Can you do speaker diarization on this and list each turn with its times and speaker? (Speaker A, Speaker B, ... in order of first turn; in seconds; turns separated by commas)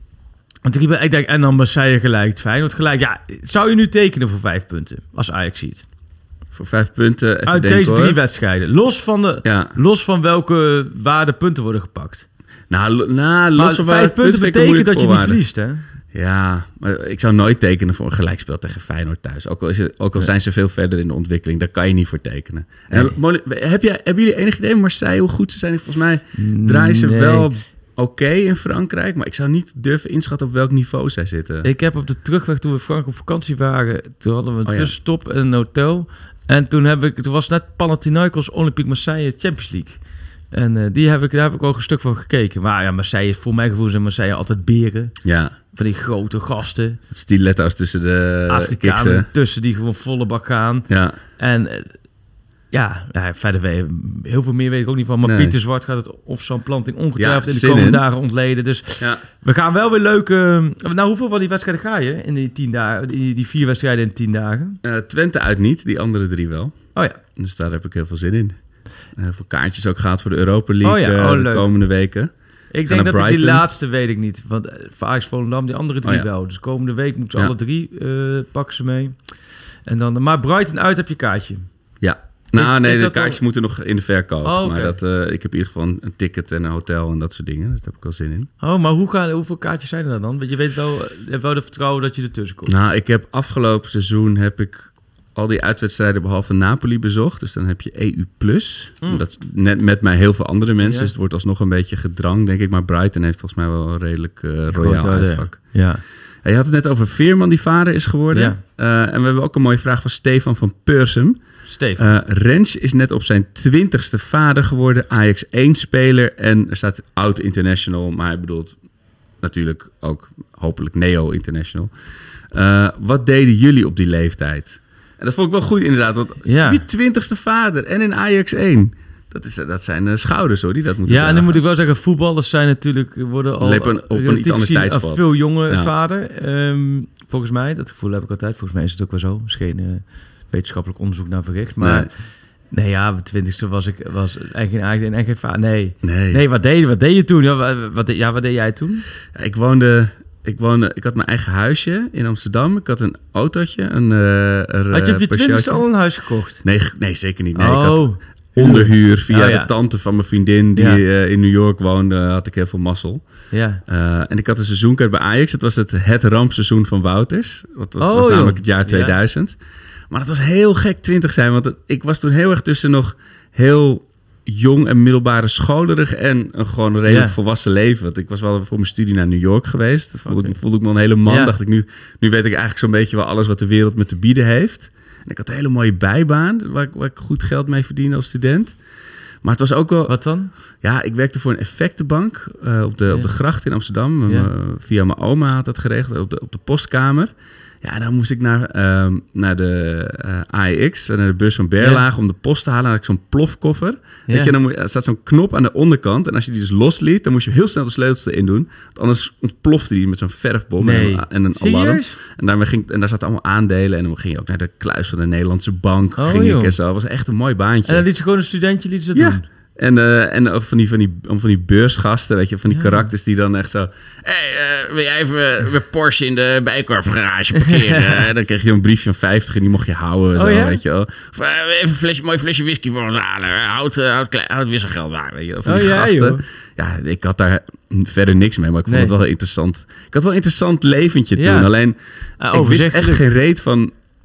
Speaker A: 0.6-5.8, Speaker B: 6.5-8.2, Speaker A: 7.5-12.2, Speaker B: 9.4-9.8, Speaker B: 12.7-15.4, Speaker A: 13.6-15.8, Speaker B: 16.1-31.7, Speaker A: 22.9-23.2, Speaker A: 26.3-27.5, Speaker A: 31.6-40.0, Speaker B: 34.6-34.9, Speaker A: 40.5-45.1, Speaker B: 45.2-45.5, Speaker A: 45.7-47.0, Speaker B: 47.1-49.3, Speaker A: 48.5-50.9, Speaker B: 50.9-51.2, Speaker A: 51.4-51.9, Speaker A: 52.7-64.8, Speaker B: 55.2-55.5, Speaker B: 57.2-58.0, Speaker B: 64.8-66.7, Speaker B: 67.3-68.6, Speaker B: 69.2-72.3, Speaker A: 70.8-71.7, Speaker A: 72.7-79.2, Speaker B: 72.8-73.6, Speaker A: 79.8-81.7, Speaker B: 82.0-88.5, Speaker A: 82.5-83.4, Speaker A: 84.4-85.0, Speaker A: 88.6-92.7, Speaker B: 92.7-105.8, Speaker A: 100.8-101.1, Speaker A: 104.7-106.0, Speaker B: 106.4-111.4, Speaker A: 108.3-108.6, Speaker A: 111.7-112.1, Speaker B: 112.0-118.8, Speaker B: 119.4-121.9, Speaker B: 122.5-131.6, Speaker A: 126.4-126.8, Speaker A: 131.1-142.1, Speaker B: 133.6-135.9, Speaker B: 141.8-142.1, Speaker A: 142.7-149.0, Speaker B: 146.0-146.4, Speaker B: 149.3-155.8, Speaker A: 154.9-156.6, Speaker B: 156.6-163.2, Speaker A: 157.5-159.7, Speaker A: 160.8-161.0, Speaker A: 163.5-163.8, Speaker B: 163.9-169.6, Speaker A: 168.0-169.2, Speaker B: 170.1-188.8, Speaker A: 177.1-177.3, Speaker A: 180.2-180.6, Speaker A: 181.2-181.5, Speaker B: 189.4-190.2, Speaker A: 190.1-190.5, Speaker B: 190.8-197.3, Speaker B: 197.8-218.1, Speaker A: 201.8-202.0, Speaker A: 210.8-212.2, Speaker A: 216.2-216.7, Speaker A: 217.8-219.4, Speaker B: 219.1-241.9, Speaker A: 222.7-223.1, Speaker A: 227.6-228.2, Speaker A: 230.3-230.8, Speaker A: 235.6-236.4, Speaker A: 238.9-239.1, Speaker A: 241.3-241.7, Speaker A: 242.4-243.2, Speaker B: 242.5-243.9